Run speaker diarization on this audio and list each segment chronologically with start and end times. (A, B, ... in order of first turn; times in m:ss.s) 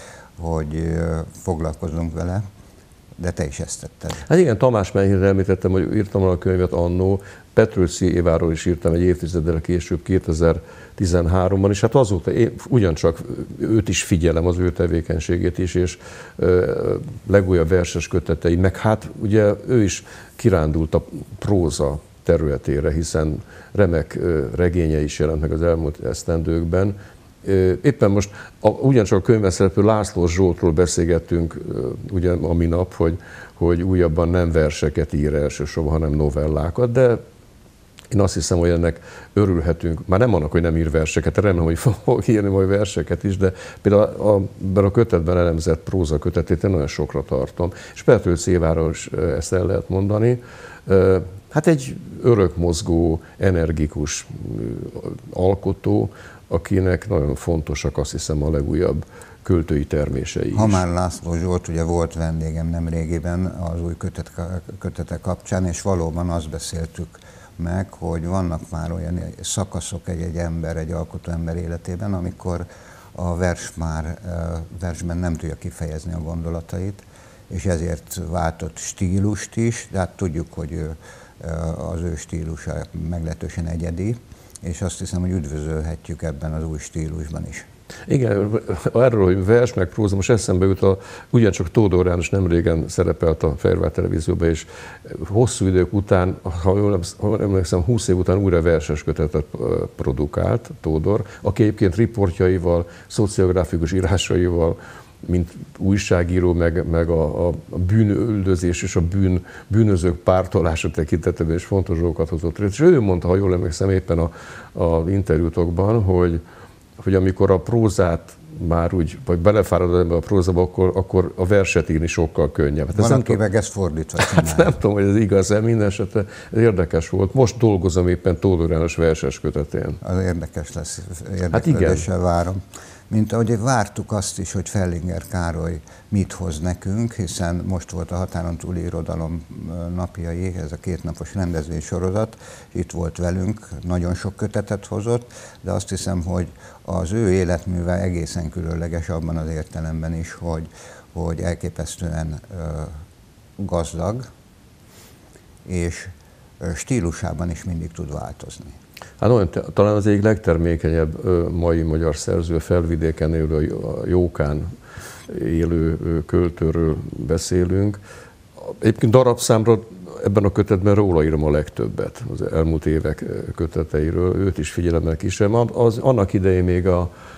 0:00.4-0:02.4 A
0:03.2-0:04.2 A
0:04.3-0:37.2 B
0:38.1-1:00.8 B
1:00.5-1:27.7 A
1:28.1-1:56.4 B
1:57.0-2:03.4 B
2:03.0-2:04.8 A
2:04.2-2:10.0 B
2:10.0-2:32.9 A
2:11.5-2:12.1 B
2:33.6-2:34.3 A
2:35.6-2:38.8 A
2:39.2-2:44.7 B
2:45.3-2:48.0 B
2:48.6-2:57.1 B